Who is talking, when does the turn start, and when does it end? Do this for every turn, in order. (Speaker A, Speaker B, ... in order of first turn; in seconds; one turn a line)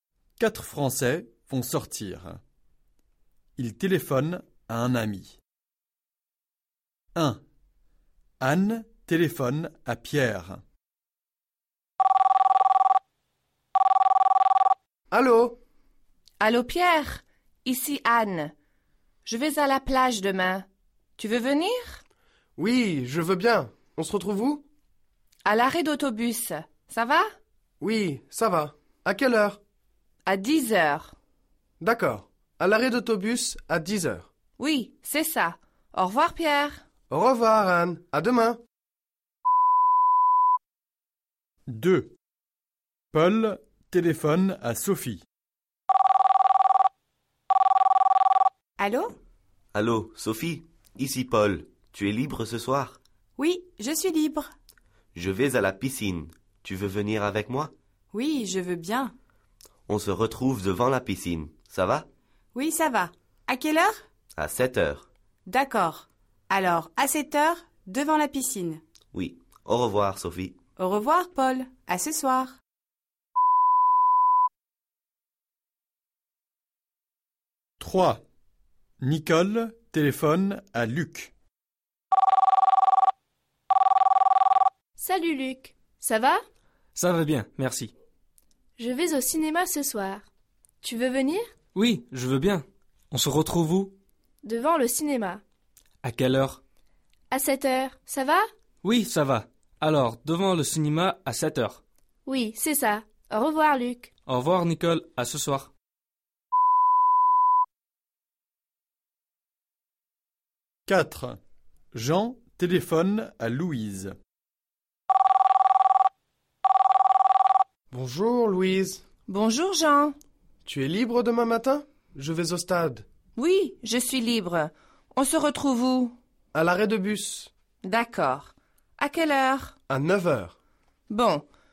Speaker A: 0.4-2.4
Speaker A: 3.6-5.4
Speaker A: 7.2-7.4
Speaker A: 8.4-10.6
Speaker B: 15.1-15.6
Speaker C: 16.4-18.5
Speaker C: 19.2-20.6
Speaker C: 21.2-22.0
Speaker B: 22.6-24.6
Speaker C: 25.4-27.3
Speaker B: 27.8-29.6
Speaker C: 30.2-31.1
Speaker B: 31.8-34.3
Speaker C: 34.6-36.8
Speaker B: 37.1-38.6
Speaker A: 41.7-42.1
Speaker A: 43.1-45.2
Speaker D: 48.8-49.1
Speaker E: 49.7-53.0
Speaker D: 53.4-54.5
Speaker E: 55.1-57.7
Speaker D: 58.1-59.1
Speaker E: 59.9-62.1
Speaker D: 62.5-64.0
Speaker E: 64.3-65.1
Speaker D: 65.5-68.8
Speaker E: 69.1-70.6
Speaker D: 70.8-72.5
Speaker A: 77.8-78.2
Speaker A: 79.0-81.3
Speaker F: 85.0-86.4
Speaker G: 86.9-87.9
Speaker F: 88.8-90.2
Speaker F: 90.8-91.5
Speaker G: 91.7-93.9
Speaker F: 94.4-95.4
Speaker G: 96.0-96.6
Speaker F: 97.3-98.4
Speaker G: 98.8-101.8
Speaker F: 102.3-104.1
Speaker G: 104.3-105.7
Speaker A: 110.9-111.4
Speaker A: 111.9-114.1
Speaker B: 117.9-119.0
Speaker C: 119.3-120.1
Speaker B: 120.6-123.0
Speaker C: 123.3-126.1
Speaker B: 126.5-127.5
Speaker C: 127.8-129.7
Speaker B: 129.9-130.5
Speaker C: 131.1-131.4